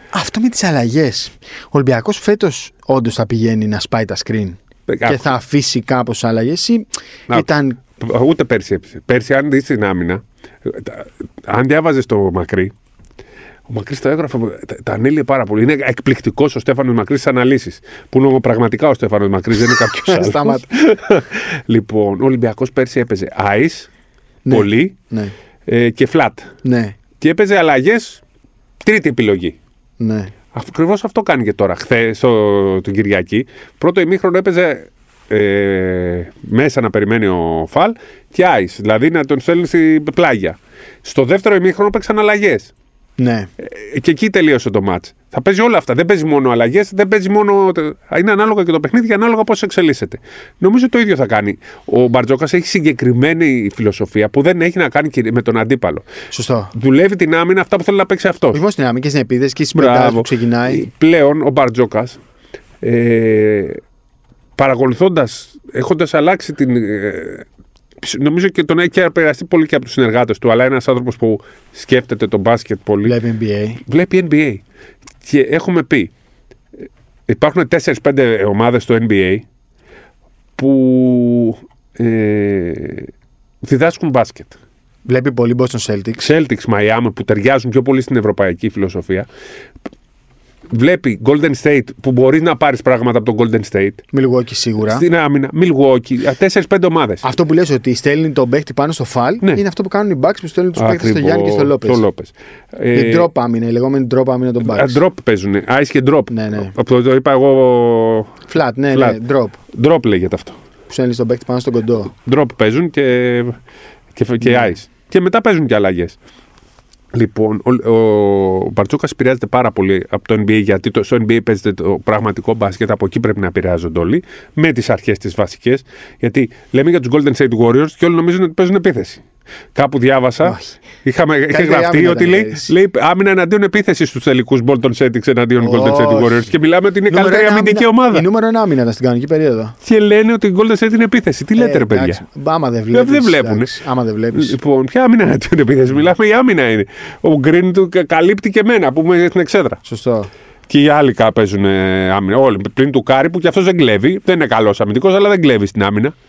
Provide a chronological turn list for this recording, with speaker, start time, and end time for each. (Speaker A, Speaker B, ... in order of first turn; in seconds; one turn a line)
Speaker A: 0.1-7.8
Speaker B: 4.9-5.3
Speaker B: 8.0-12.7
Speaker B: 13.7-23.9
Speaker A: 19.6-20.7
Speaker A: 24.4-25.3
Speaker B: 24.5-24.9
Speaker B: 25.7-26.5
Speaker A: 26.6-27.0
Speaker B: 27.2-28.2
Speaker B: 28.8-29.6
Speaker A: 30.0-30.3
Speaker B: 30.5-42.7
Speaker A: 43.2-43.5
Speaker B: 43.6-56.1
Speaker A: 56.3-56.7
Speaker B: 56.7-58.6
Speaker A: 58.5-60.9
Speaker B: 59.7-62.2
Speaker B: 62.8-63.8
Speaker B: 64.6-67.5
Speaker B: 68.0-73.2
Speaker A: 73.0-73.8
Speaker B: 73.8-74.6
Speaker B: 75.2-76.1
Speaker B: 77.3-79.5
Speaker B: 80.6-83.1
Speaker B: 83.6-84.6
Speaker A: 85.1-86.3
Speaker B: 86.2-89.3
Speaker B: 90.7-94.0
Speaker A: 94.1-95.0
Speaker B: 94.8-97.2
Speaker A: 97.2-102.0
Speaker B: 100.8-103.3
Speaker A: 102.9-105.0
Speaker B: 104.6-108.4
Speaker A: 106.3-106.7
Speaker A: 108.5-109.6
Speaker B: 108.9-109.2
Speaker B: 109.7-110.6
Speaker A: 110.9-112.1
Speaker B: 112.1-113.6
Speaker B: 114.2-116.2
Speaker A: 114.4-114.7
Speaker B: 117.1-129.2
Speaker B: 129.8-138.2
Speaker A: 130.4-130.8
Speaker A: 131.5-132.7
Speaker A: 135.6-136.5
Speaker A: 137.1-139.8
Speaker B: 139.8-142.2
Speaker A: 141.6-144.6
Speaker B: 142.9-143.7
Speaker B: 144.3-149.8
Speaker A: 149.8-150.3
Speaker B: 150.7-156.2